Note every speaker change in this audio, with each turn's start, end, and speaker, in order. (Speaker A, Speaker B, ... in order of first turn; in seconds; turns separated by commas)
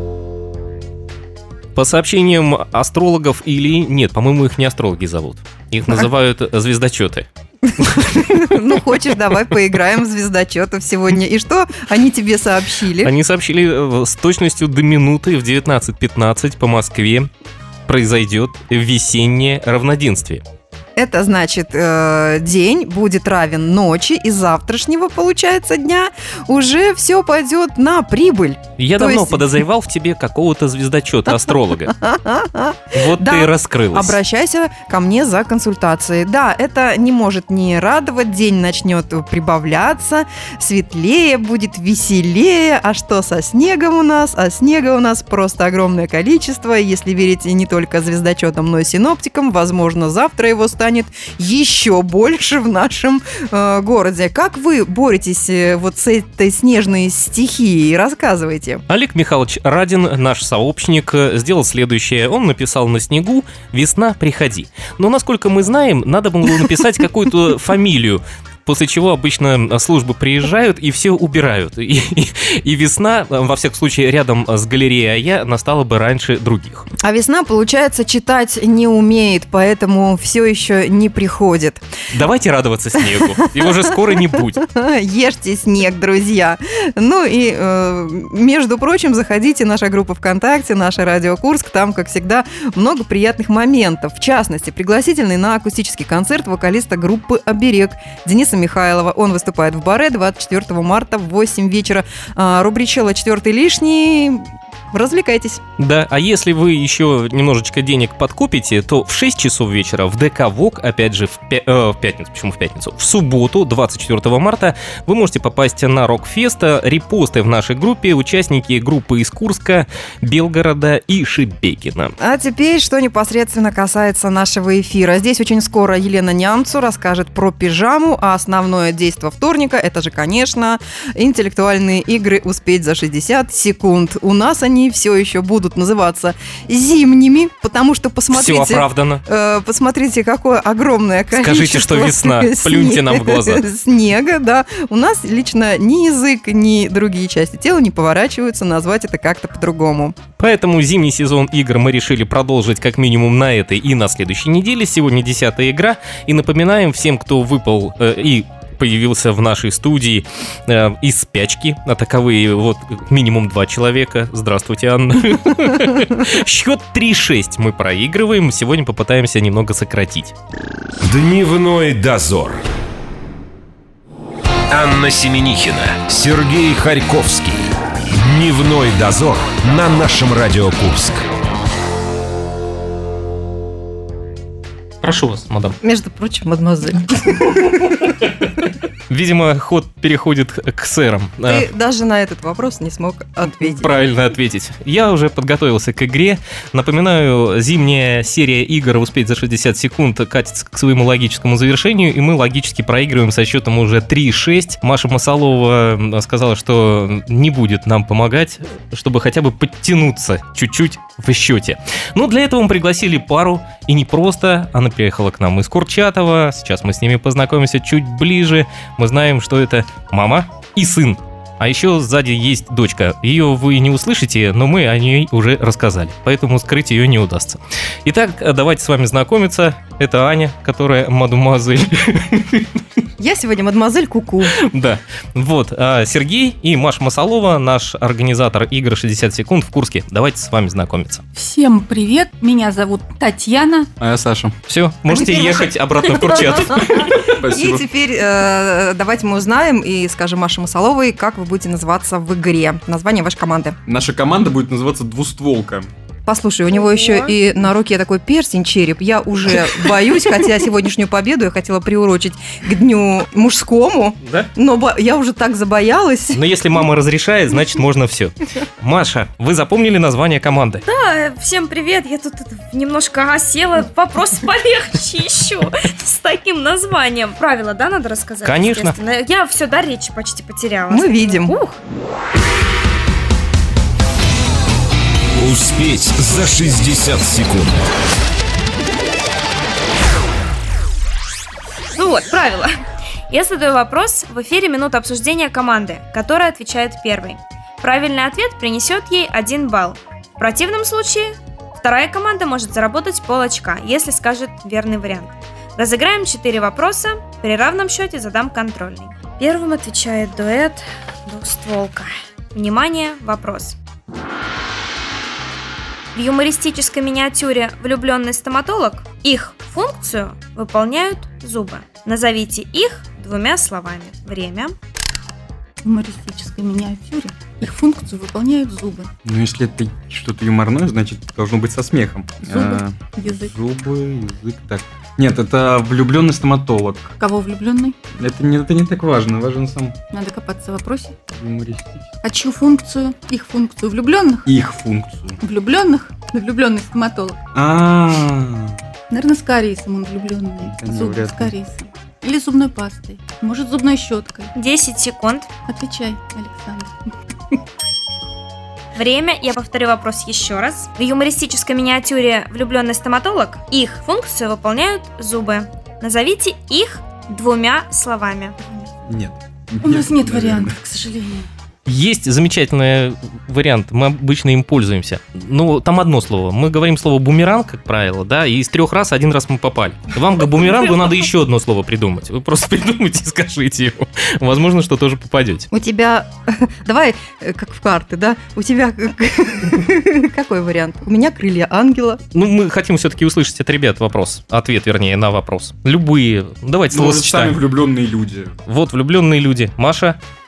Speaker A: 1.8-7.3, Speaker B: 7.6-13.1, Speaker A: 7.8-8.6, Speaker A: 13.0-17.3, Speaker A: 17.9-20.4, Speaker B: 21.0-29.6, Speaker A: 28.8-31.9, Speaker B: 31.3-58.8, Speaker A: 32.9-34.2, Speaker A: 58.9-76.9, Speaker B: 77.0-81.8, Speaker A: 82.1-84.6, Speaker B: 83.0-105.6, Speaker A: 105.8-122.1, Speaker B: 122.2-150.2, Speaker A: 138.3-139.2, Speaker A: 141.3-143.6, Speaker A: 150.4-170.3, Speaker C: 171.0-172.6, Speaker C: 174.7-181.3, Speaker A: 185.0-185.8, Speaker B: 185.8-188.0, Speaker A: 189.1-191.7, Speaker B: 191.4-193.9, Speaker A: 193.6-232.7, Speaker B: 233.2-234.6, Speaker A: 234.5-241.2, Speaker D: 241.3-243.9, Speaker E: 244.0-244.5, Speaker A: 244.7-247.2, Speaker B: 245.1-253.8, Speaker E: 247.2-247.8, Speaker E: 253.9-255.9, Speaker B: 256.3-266.4, Speaker F: 256.7-257.3, Speaker A: 264.2-264.5, Speaker A: 266.3-270.8, Speaker F: 270.9-281.8, Speaker A: 278.4-279.0, Speaker B: 280.9-281.6, Speaker C: 285.4-287.9, Speaker F: 291.9-292.7, Speaker F: 293.3-313.8, Speaker F: 316.1-324.7, Speaker D: 325.9-329.1, Speaker E: 329.2-337.1, Speaker D: 332.4-333.5, Speaker D: 337.2-337.9, Speaker E: 338.2-340.0, Speaker D: 340.1-341.2, Speaker E: 341.3-342.1, Speaker D: 342.2-344.5, Speaker E: 344.5-345.4, Speaker D: 345.4-347.4, Speaker E: 347.6-348.8, Speaker D: 349.1-354.5, Speaker E: 350.6-351.6, Speaker F: 354.6-355.5, Speaker D: 355.7-356.9, Speaker F: 358.9-368.6, Speaker E: 369.1-370.8, Speaker D: 369.8-371.5, Speaker A: 371.9-385.7, Speaker B: 385.7-392.2, Speaker A: 392.3-397.6, Speaker E: 396.9-398.5, Speaker A: 398.7-400.2